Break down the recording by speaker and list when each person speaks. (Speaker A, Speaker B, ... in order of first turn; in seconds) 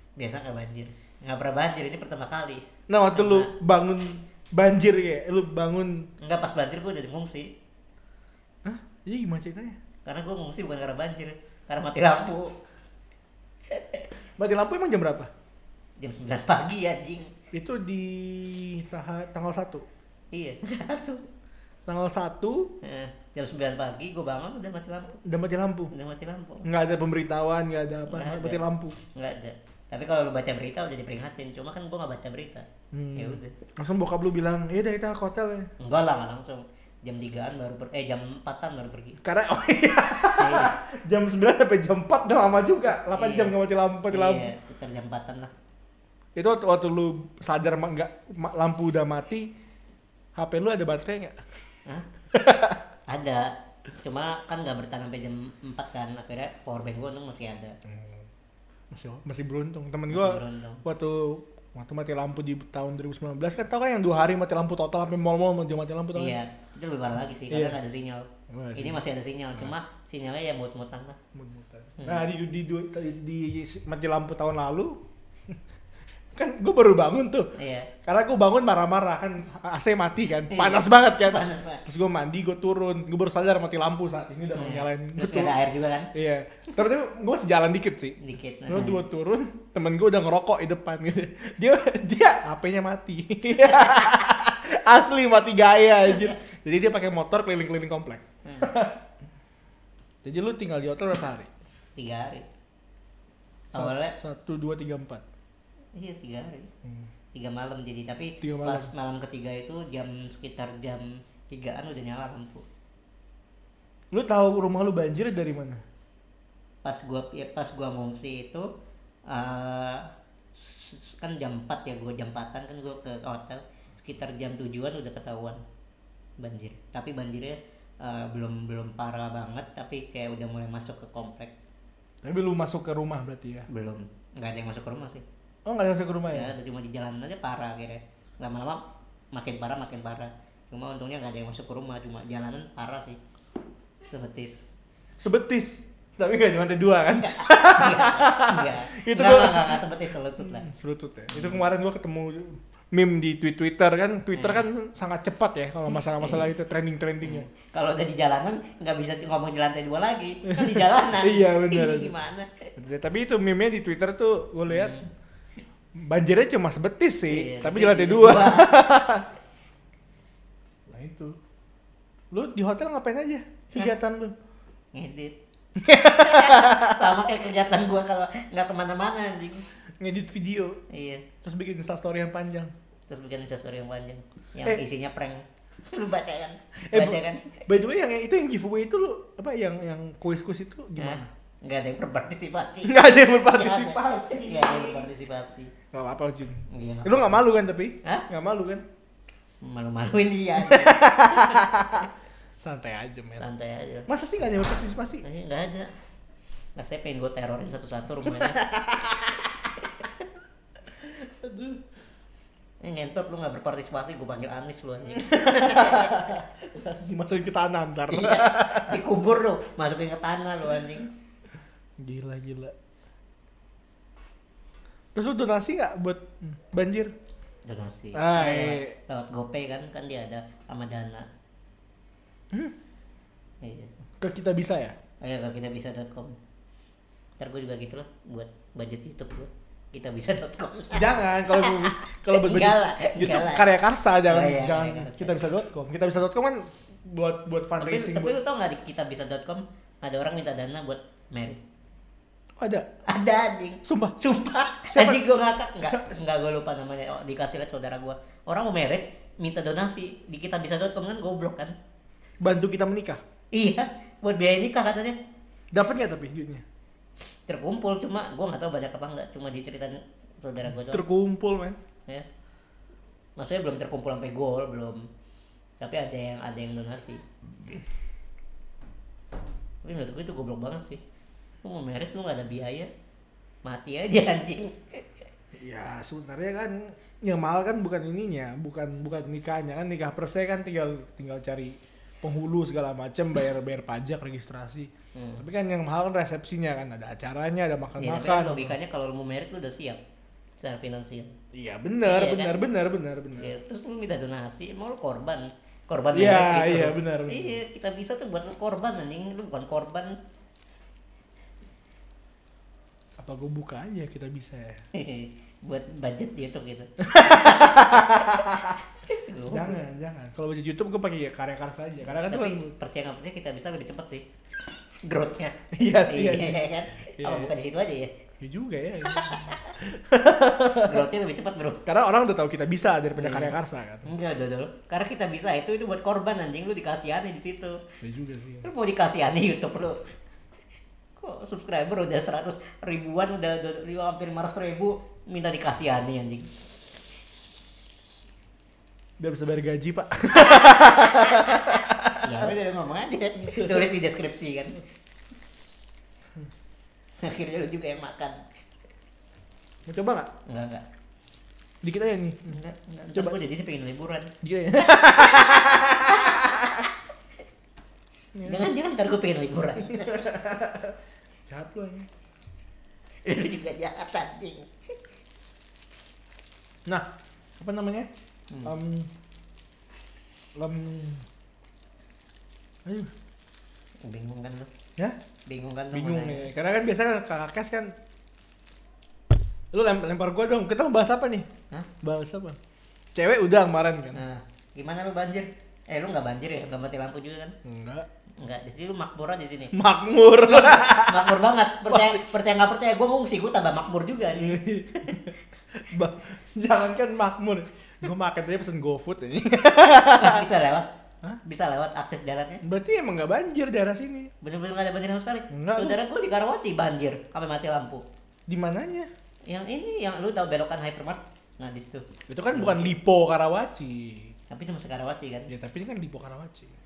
Speaker A: 0.2-3.5, 6.2-7.5, 10.1-12.5, 13.7-14.1, 16.0-17.3, 20.3-21.2, 22.8-25.2, 25.9-26.7, 28.1-28.6, 29.1-33.6, 35.8-39.2, 40.4-40.7, 43.1-43.6, 44.1-45.5, 53.1-57.8, 60.1-60.8, 66.2-71.2, 72.0-72.3, 77.5-77.9, 80.5-81.8, 84.5-86.1, 88.2-89.0, 93.7-94.1, 98.5-98.7, 102.0-102.5, 103.7-104.2, 106.0-106.7, 107.3-112.7, 116.8-118.7, 119.3-125.6, 126.4-131.5, 133.7-135.2, 136.3-138.8, 139.3-143.2, 144.1-144.7, 147.2-150.7, 151.3-151.7, 154.3-154.7, 155.9-156.5, 157.2-162.7, 164.7-165.1, 167.3-168.9, 174.9-175.4, 176.1-179.7, 180.9-181.3, 183.1-187.6, 191.0-195.7, 196.7-197.4, 199.6-201.6, 203.4-204.1, 205.2-205.9, 206.8-210.3, 212.8-216.3, 218.1-221.1, 227.7-231.3, 233.6-233.9, 235.2-236.4, 237.4-243.7, 244.3-245.4, 247.8-251.6, 253.1-261.7, 263.5-265.2, 267.5-271.1, 273.4-275.1, 275.8-277.2, 279.9-281.0, 281.6-282.9, 283.6-285.1, 295.1-295.5, 298.0-300.0, 300.6-301.3, 302.0-302.6, 303.4-310.2, 314.9-319.8, 322.1-324.2, 325.0-325.6, 326.1-328.1, 329.0-329.7, 330.8-331.8, 333.1-337.8, 338.6-340.0, 341.2-346.5, 350.4-354.8, 357.2-358.4, 360.5-360.9, 362.5-364.3, 365.0-366.9, 368.4-370.4, 373.2-374.7, 384.0-384.7, 385.5-386.5, 394.1-397.5, 398.4-399.7, 400.4-405.2, 410.2-410.9, 411.4-412.6, 414.4-418.0, 419.5-422.9, 424.5-425.5
Speaker B: 2.9-6.1, 8.7-9.8, 14.4-15.3, 17.5-19.9, 21.9-22.7, 25.2-25.9, 26.6-29.0, 32.9-35.7, 39.2-44.5, 46.4-49.5, 50.4-51.4, 52.3-52.8, 57.9-58.3, 58.9-66.4, 67.5-67.8, 68.5-69.0, 71.3-75.0, 76.3-77.5, 78.0-85.6, 86.1-99.0, 100.2-101.5, 103.7-105.2, 108.4-108.9, 114.1-115.8, 132.2-133.7, 135.7-136.5, 145.2-149.8, 150.4-157.5, 160.5-162.1, 162.8-165.0, 166.0-169.2, 170.9-171.4, 172.3-174.3, 175.8-177.3, 180.0-180.8, 181.4-182.7, 186.9-191.3, 192.8-195.1, 195.9-198.8, 200.6-203.5, 204.1-205.2, 208.7-209.0, 211.0-211.8, 215.2-219.0, 222.0-222.7, 225.2-227.1, 228.1-229.0, 234.2-234.9, 240.9-248.4, 252.6-252.9, 253.8-254.2, 254.9-255.2, 255.8-256.2, 262.4-263.2, 265.7-266.6, 270.7-271.8, 285.6-298.8, 301.5-303.6, 306.1-307.6, 313.2-314.8, 317.0-318.8, 319.5-322.7, 325.7-326.6, 327.2-327.5, 328.4-331.0, 331.9-334.1, 338.0-338.7, 349.2-352.5, 359.9-360.3, 361.8-363.4, 364.4-366.8, 368.4-368.7, 369.9-370.9, 371.5-372.1, 376.9-378.1, 378.6-379.1, 380.6-381.3, 382.9-383.1, 385.9-387.9, 389.7-391.5, 392.0-392.6, 393.1-394.2, 397.6-398.1, 399.7-402.2, 404.4-410.4, 412.6-414.3, 415.5-416.1, 418.5-419.1, 422.3-424.3, 425.5-426.8